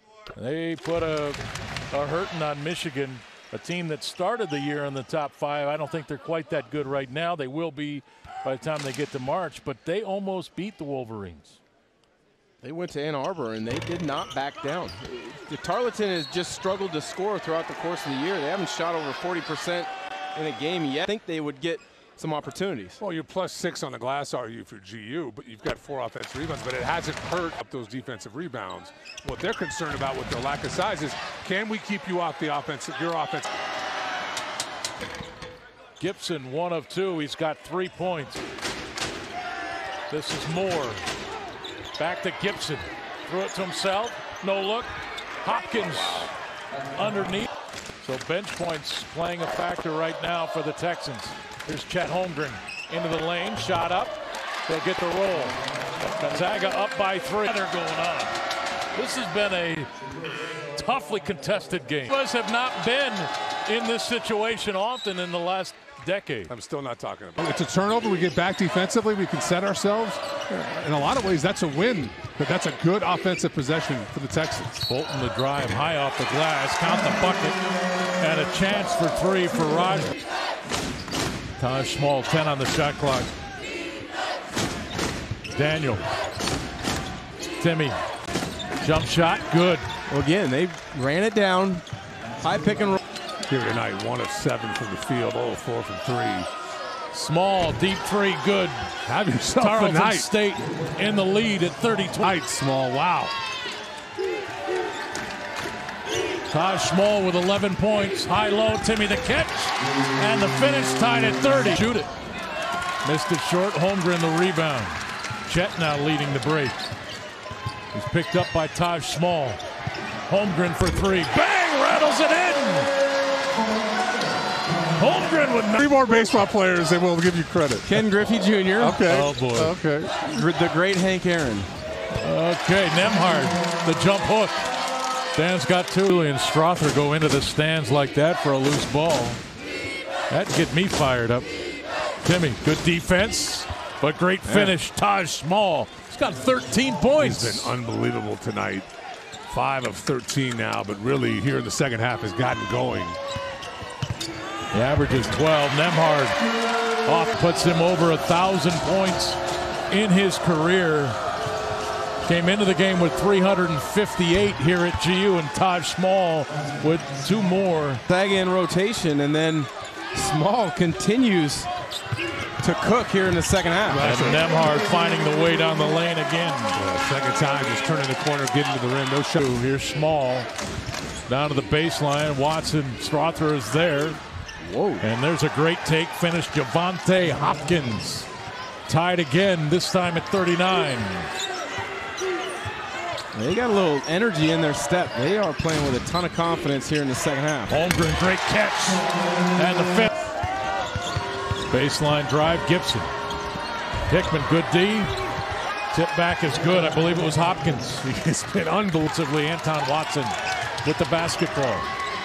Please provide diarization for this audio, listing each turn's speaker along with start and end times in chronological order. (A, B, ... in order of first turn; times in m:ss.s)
0:00.3-0:11.6 A
0:12.6-0:23.0 B
0:23.0-0:33.5 C
0:36.0-0:38.4 A
0:40.1-0:41.1 A
0:42.0-0:44.9 A
0:45.4-0:46.3 A
0:45.8-0:46.3 C
0:46.9-0:58.4 A
0:58.9-0:59.9 A
1:00.7-1:06.5 A
1:06.5-1:14.8 C
1:14.8-1:17.6 A
1:18.2-1:20.2 A
1:21.6-1:23.3 A
1:25.5-1:26.1 A
1:27.6-1:28.0 A
1:28.8-1:29.9 A
1:30.1-1:31.8 B
1:32.4-1:33.0 B
1:33.5-1:36.5 C
1:37.1-1:38.9 A
1:39.0-1:40.3 C
1:39.6-1:42.3 A
1:42.2-1:43.3 C
1:46.5-1:52.1 A
1:53.0-1:56.8 A
1:57.9-1:59.6 A
2:00.3-2:02.9 A
2:04.9-2:05.9 A
2:05.8-2:08.1 C
2:07.8-2:09.1 B
2:08.8-2:10.1 C
2:09.0-2:09.8 A
2:10.1-2:11.7 B
2:12.2-2:14.7 A
2:15.3-2:19.4 A
2:20.3-2:21.5 A
2:22.2-2:27.7 A
2:24.5-2:24.8 B
2:27.2-2:28.9 C
2:29.5-2:33.2 C
2:34.7-2:36.4 A
2:37.0-2:41.2 A
2:42.2-2:48.0 A
2:48.1-2:51.7 B
2:52.6-2:54.1 B
2:53.9-2:54.4 C
2:54.0-2:56.8 A
2:56.8-2:59.4 C
2:59.4-3:00.5 A
3:01.3-3:04.2 A
3:04.6-3:05.0 B
3:05.0-3:08.3 A
3:08.9-3:11.3 A
3:13.3-3:17.7 B
3:17.7-3:20.1 A
3:21.7-3:23.1 A
3:24.1-3:25.1 A
3:25.9-3:31.9 A
3:28.2-3:29.0 C